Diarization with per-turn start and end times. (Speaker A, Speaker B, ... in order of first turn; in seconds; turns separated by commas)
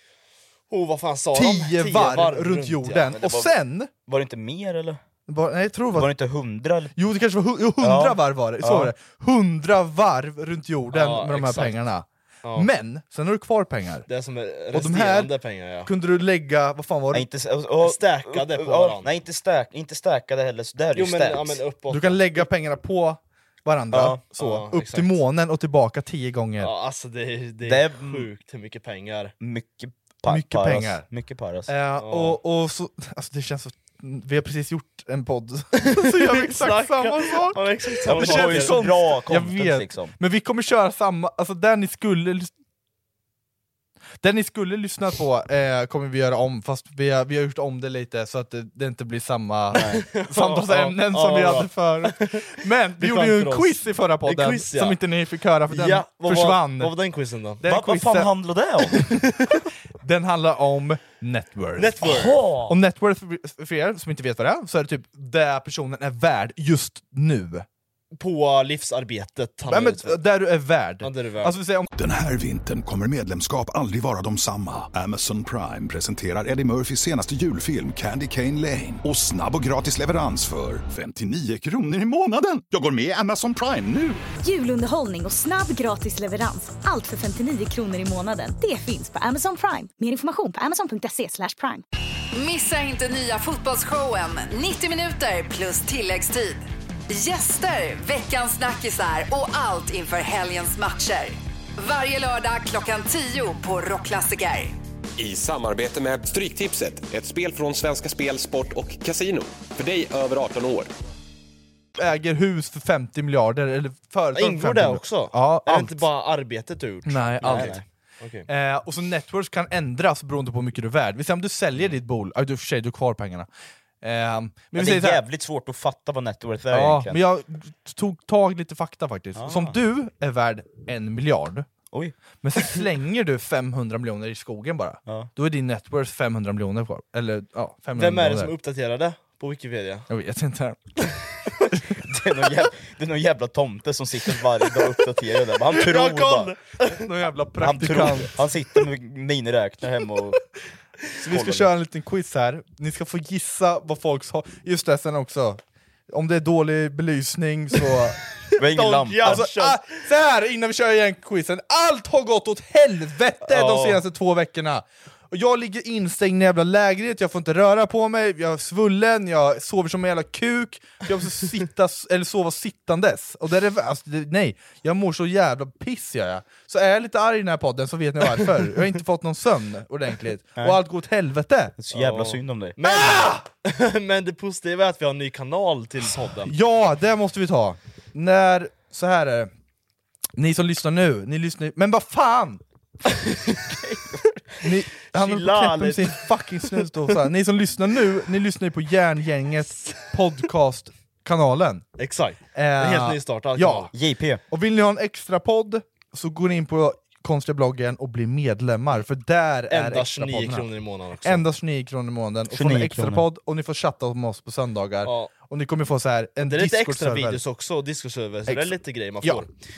Speaker A: 0.7-3.2, Speaker B: 1.3-3.9, Speaker C: 3.1-3.5, Speaker C: 4.0-5.0, Speaker B: 5.3-6.1, Speaker C: 5.9-6.9, Speaker B: 7.0-14.1, Speaker C: 7.8-8.9, Speaker A: 10.9-11.8, Speaker A: 12.4-12.7, Speaker A: 14.1-15.9, Speaker B: 14.7-15.3, Speaker B: 15.8-17.2, Speaker C: 17.1-21.6, Speaker A: 17.8-19.1, Speaker A: 20.9-22.4, Speaker B: 21.9-26.7, Speaker C: 23.9-24.2, Speaker A: 24.4-25.2, Speaker A: 26.6-29.3, Speaker C: 27.6-28.3, Speaker C: 29.4-31.7, Speaker B: 30.3-31.1, Speaker B: 31.7-42.5, Speaker A: 32.0-32.4, Speaker A: 35.8-38.8, Speaker C: 38.0-40.1, Speaker B: 44.2-56.9, Speaker C: 49.8-50.0, Speaker A: 49.8-55.0, Speaker A: 55.7-57.6, Speaker B: 57.6-58.3, Speaker C: 57.6-59.2, Speaker B: 60.0-62.1, Speaker A: 61.8-62.5, Speaker C: 62.0-62.7, Speaker B: 62.6-67.7, Speaker A: 68.1-70.2, Speaker B: 69.7-71.9, Speaker A: 71.0-71.5, Speaker D: 72.0-84.2, Speaker E: 84.4-91.8, Speaker F: 92.3-104.8, Speaker G: 105.2-110.9, Speaker B: 112.0-116.1, Speaker A: 114.3-118.5, Speaker B: 117.0-117.8, Speaker C: 117.4-117.8, Speaker B: 118.5-123.5, Speaker B: 124.0-125.2, Speaker C: 124.7-127.2, Speaker B: 126.7-131.7, Speaker C: 129.3-129.7, Speaker B: 132.4-138.5, Speaker A: 137.9-140.1, Speaker B: 140.1-140.8, Speaker C: 142.0-146.5, Speaker A: 145.7-147.1, Speaker B: 146.9-148.3, Speaker C: 147.6-150.4, Speaker B: 151.2-158.2, Speaker C: 151.3-151.7, Speaker A: 158.6-160.0, Speaker C: 158.6-159.5, Speaker B: 159.2-181.7, Speaker A: 163.4-164.0, Speaker C: 181.8-182.8, Speaker A: 181.9-186.5, Speaker B: 182.8-183.4, Speaker B: 186.4-189.5, Speaker B: 190.4-192.6, Speaker C: 193.7-196.1, Speaker B: 194.6-201.8, Speaker A: 202.0-203.9, Speaker B: 202.5-203.9, Speaker C: 203.9-204.4, Speaker B: 204.5-210.7, Speaker A: 209.7-211.4, Speaker B: 211.2-217.4, Speaker C: 212.5-213.2, Speaker A: 215.0-215.3, Speaker A: 216.4-219.5, Speaker B: 218.5-219.4